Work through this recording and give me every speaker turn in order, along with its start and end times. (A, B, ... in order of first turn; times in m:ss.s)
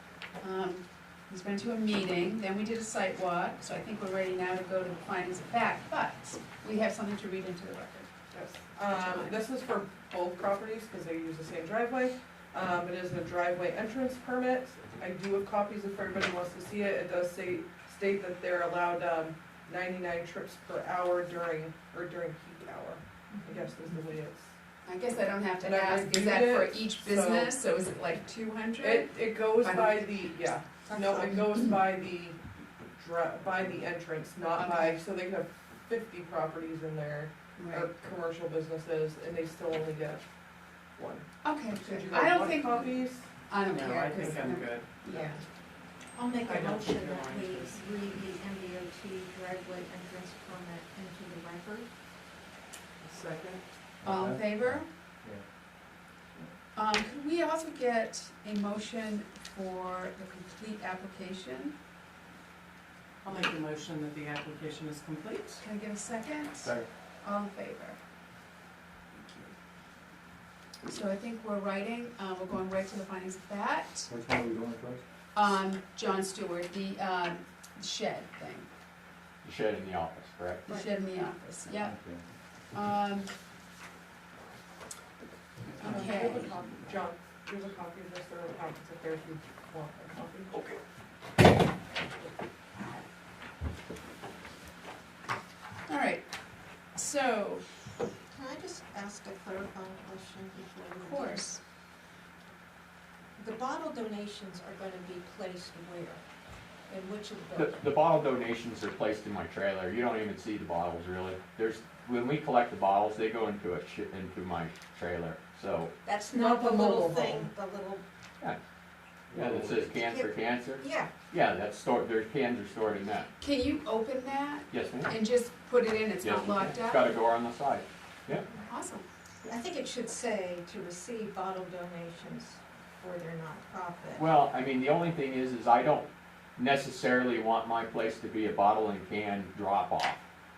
0:00.4-0:08.1 A
0:08.3-0:24.5 B
0:08.9-0:09.4 A
0:23.3-0:23.8 C
0:24.8-0:31.8 A
0:25.6-0:27.7 B
0:28.8-0:40.2 B
0:34.6-0:35.0 A
0:37.6-0:37.9 A
0:41.0-0:43.3 B
0:41.4-0:45.4 A
0:43.6-0:45.3 D
0:45.1-0:45.4 C
0:46.1-0:51.9 C
0:46.4-0:47.9 D
0:53.0-0:53.6 D
0:54.0-0:54.9 A
0:54.0-0:55.4 E
0:56.7-1:01.8 A
1:03.2-1:05.6 D
1:05.6-1:08.0 A
1:09.2-1:09.5 A
1:10.8-1:14.1 A
1:14.1-1:15.0 E
1:15.3-1:18.7 A
1:19.4-1:20.7 F
1:20.7-1:22.0 A
1:20.7-1:21.0 C
1:21.8-1:22.2 E
1:22.7-1:23.3 A
1:25.8-1:30.8 B
1:25.8-1:26.5 A
1:35.9-1:36.3 A
1:36.9-1:37.8 A
1:38.3-1:41.6 C
1:41.0-1:41.6 A
1:43.4-1:46.2 C
1:46.9-1:48.0 C
1:47.6-1:55.9 F
1:56.0-1:58.0 C
1:56.3-1:57.5 B
1:59.3-2:03.3 F
1:59.9-2:01.1 C
2:03.4-2:07.2 A
2:04.7-2:05.2 F
2:06.2-2:08.5 F
2:08.7-2:09.0 A
2:09.4-2:14.3 C
2:14.2-2:20.2 F